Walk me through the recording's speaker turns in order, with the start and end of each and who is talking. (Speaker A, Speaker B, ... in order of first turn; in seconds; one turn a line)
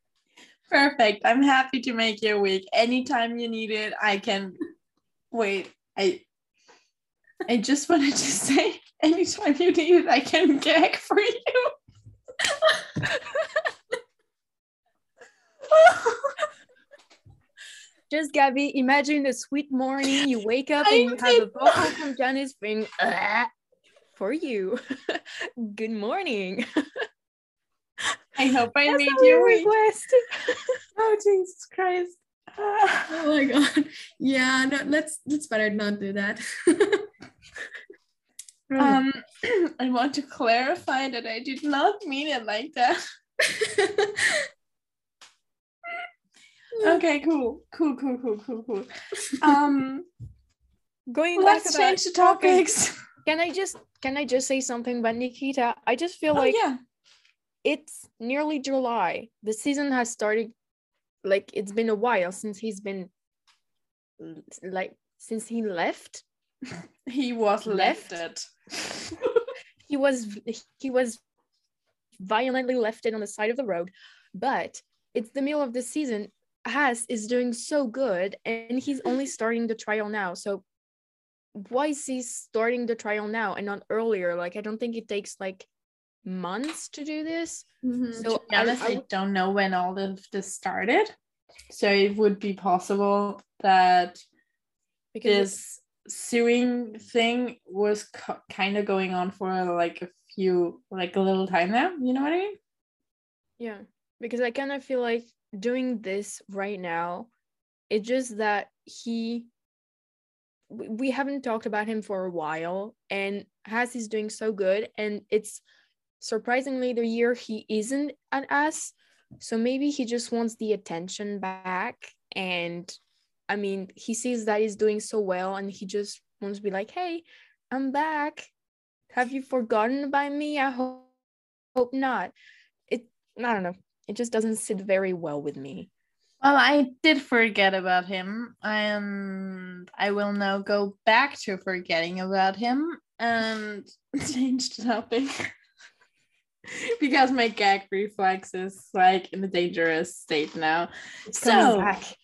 Speaker A: 0.7-4.6
Speaker A: 5.3-6.2
Speaker A: 7.5-11.7
Speaker A: 15.7-16.3
Speaker B: 18.1-23.5
Speaker A: 20.8-22.1
Speaker B: 24.1-27.1
Speaker A: 28.4-29.7
Speaker B: 28.9-30.6
Speaker A: 31.0-33.2
Speaker C: 33.1-37.1
Speaker B: 38.7-39.0
Speaker A: 38.8-43.0
Speaker C: 43.5-44.4
Speaker A: 46.8-50.1
Speaker B: 51.1-52.7
Speaker A: 51.4-53.0
Speaker B: 53.3-56.6
Speaker A: 56.3-56.8
Speaker B: 57.6-60.5
Speaker B: 61.2-63.1
Speaker B: 64.2-66.2
Speaker A: 67.1-69.2
Speaker B: 67.7-68.2
Speaker B: 69.9-71.2
Speaker B: 72.2-80.6
Speaker B: 81.5-85.7
Speaker B: 86.2-87.7
Speaker C: 87.8-88.3
Speaker B: 88.2-89.0
Speaker A: 88.2-91.1
Speaker A: 91.7-94.2
Speaker B: 95.1-95.6
Speaker A: 95.2-102.6
Speaker B: 103.6-107.3
Speaker B: 107.9-109.5
Speaker B: 110.7-115.6
Speaker B: 116.2-123.0
Speaker B: 123.5-128.5
Speaker B: 129.1-131.1
Speaker B: 131.8-132.3
Speaker B: 132.9-135.9
Speaker A: 136.4-145.3
Speaker A: 146.7-151.9
Speaker B: 151.3-152.2